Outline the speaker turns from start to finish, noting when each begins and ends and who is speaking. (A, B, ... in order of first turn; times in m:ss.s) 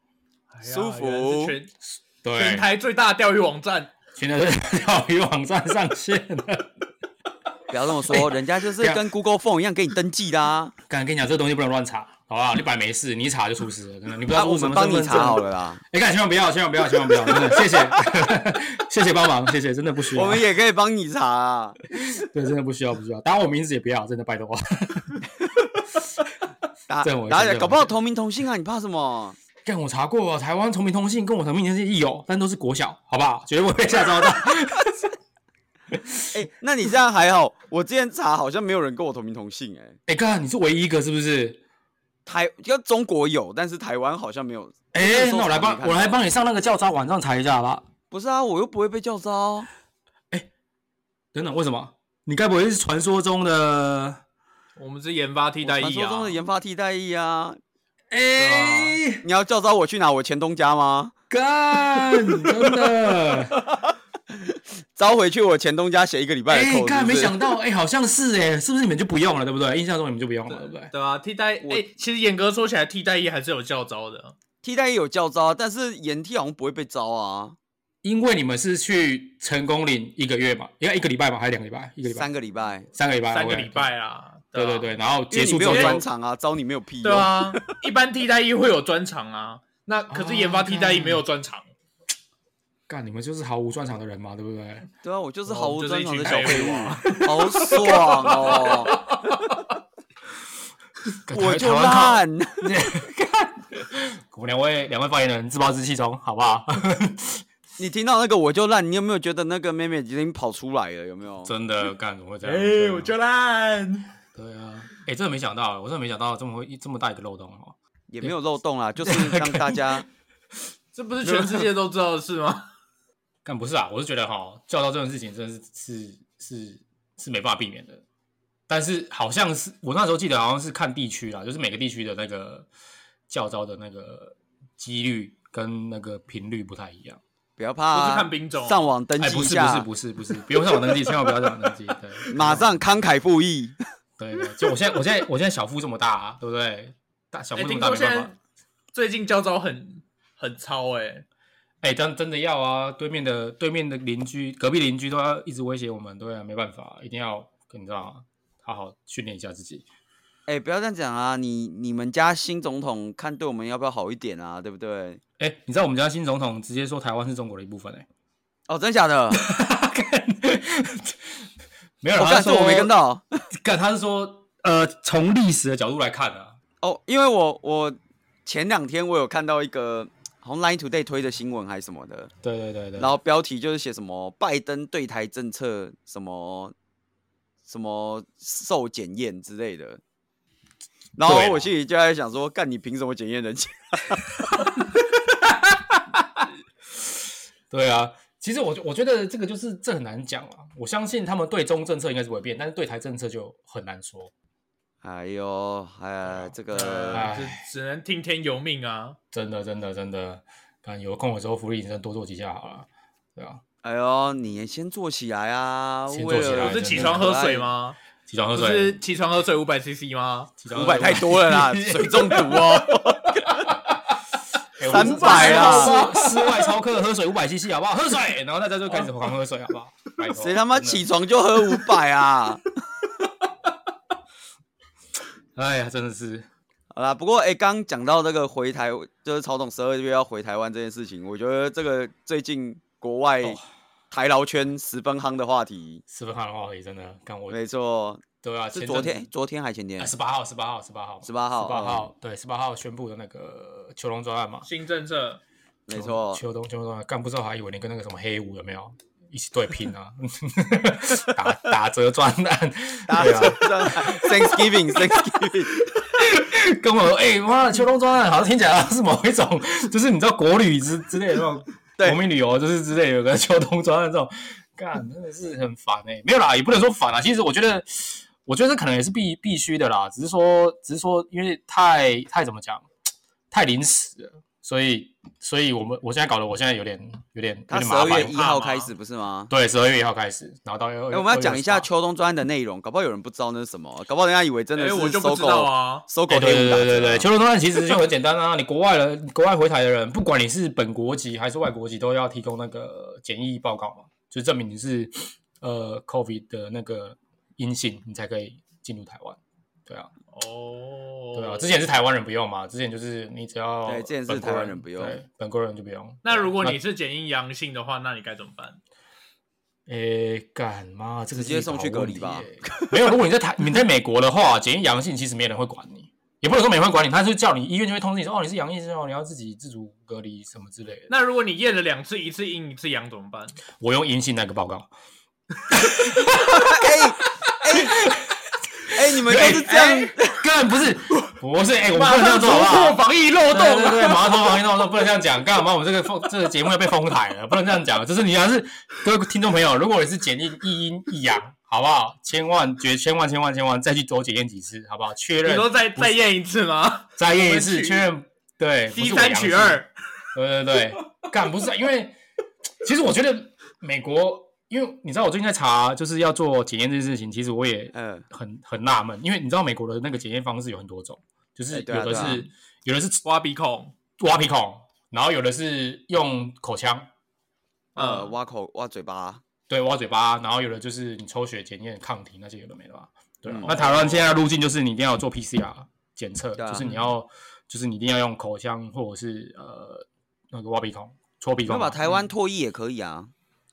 0:00.5-0:01.7 A
0:00.6-0:01.6 B
0:02.2-0:02.7 C
0:02.4-0:03.9 A
0:04.2-0:06.7 C
0:07.7-0:10.8 B
0:08.0-0:09.0 C
0:10.9-0:20.5 C
0:14.3-0:15.8 B
0:20.1-0:21.8 B
0:21.9-0:25.2 C
0:26.9-0:29.4 B
0:27.0-0:27.9 C
0:29.6-0:35.1 C
0:35.9-0:36.4 C
0:36.3-0:40.0 B
0:40.1-0:41.6 C
0:42.3-0:46.2 B
0:44.9-0:47.9 C
0:48.1-0:49.7 B
0:51.3-0:54.2 C
0:54.8-0:56.4 A
0:55.6-0:57.6 B
0:58.1-0:59.2 C
0:58.4-1:01.1 B
1:01.3-1:03.6 C
1:04.3-1:07.4 B
1:06.5-1:10.9 C
1:10.5-1:14.4 A
1:14.6-1:17.6 B
1:18.0-1:22.3 C
1:22.1-1:22.9 B
1:22.9-1:23.9 C
1:23.3-1:24.9 A
1:24.6-1:26.0 C
1:25.3-1:27.6 B
1:25.6-1:26.0 A
1:27.0-1:31.7 A
1:30.1-1:31.2 C
1:32.9-1:34.9 C
1:35.0-1:38.9 B
1:35.5-1:39.6 A
1:36.2-1:37.0 C
1:41.3-1:47.4 C
1:41.3-1:42.7 B
1:47.8-1:51.5 B
1:51.4-1:53.1 C
1:52.4-1:54.1 A
1:54.4-1:58.3 C
1:58.1-2:00.0 B
1:59.0-2:00.0 C
2:01.0-2:02.7 A
2:03.4-2:08.0 C
2:08.7-2:12.7 C
2:13.3-2:17.2 C
2:17.6-2:19.9 B
2:17.9-2:18.8 A
2:19.2-2:22.8 C
2:22.3-2:23.8 B
2:24.2-2:28.3 C
2:27.6-2:28.4 A
2:28.9-2:31.2 A
2:31.8-2:39.9 C
2:40.5-2:45.2 B
2:45.4-2:48.1 C
2:48.7-2:49.4 B
2:49.3-2:51.4 C
2:52.0-2:52.9 C
2:52.2-2:53.4 B
2:53.5-2:56.6 C
2:56.8-3:02.3 B
3:02.4-3:03.1 C
3:03.0-3:06.7 B
3:07.7-3:10.0 B
3:11.2-3:14.4 B
3:11.2-3:11.7 C
3:17.7-3:24.3 C
3:25.0-3:27.3 B
3:26.3-3:26.5 C
3:26.7-3:29.2 A
3:27.1-3:27.6 C
3:29.3-3:33.6 C
3:33.8-3:37.7 B
3:36.1-3:37.3 C
3:36.5-3:38.0 A
3:38.3-3:39.0 C
3:38.5-3:40.5 A
3:40.6-3:42.8 C
3:40.7-3:43.5 B
3:43.4-3:43.7 A
3:44.8-3:51.1 C
3:44.8-3:46.0 B
3:44.8-3:46.7 A
3:50.3-3:52.7 B
3:55.6-3:56.5 C
3:56.9-4:03.6 B
4:04.1-4:06.0 B
4:06.1-4:07.6 C
4:07.5-4:10.1 B
4:08.4-4:09.3 C
4:10.0-4:14.7 C
4:11.2-4:12.1 B
4:14.6-4:15.4 A
4:15.9-4:16.4 B
4:15.9-4:42.9 C
4:23.1-4:25.8 B
4:43.5-4:48.4 C
4:47.7-4:49.5 B
4:48.3-4:48.9 A
4:49.5-4:51.9 C
4:51.1-4:57.3 B
4:54.8-4:56.1 A
4:56.3-5:10.1 C
5:10.3-5:11.7 A
5:11.3-5:16.8 C
5:13.9-5:15.2 B
5:16.2-5:18.8 A
5:19.9-5:31.1 C
5:21.3-5:23.1 B
5:31.1-5:33.6 A
5:33.8-5:34.9 C
5:35.7-5:36.8 C
5:36.5-5:38.0 B
5:37.8-5:56.2 C
5:38.9-5:40.4 B
5:39.4-5:40.2 A
5:41.9-5:44.6 A
5:55.4-5:58.1 A
5:57.2-5:59.8 C
5:58.9-5:59.9 A
6:00.3-6:02.2 C
6:02.8-6:13.2 C
6:07.9-6:08.3 B
6:11.7-6:12.5 B
6:13.2-6:13.9 A
6:14.2-6:17.1 C
6:18.0-6:18.3 A
6:18.0-6:19.4 B
6:19.7-6:32.0 C
6:23.5-6:24.1 B
6:23.6-6:24.2 A
6:26.6-6:26.8 B
6:26.8-6:27.1 A
6:31.7-6:33.3 B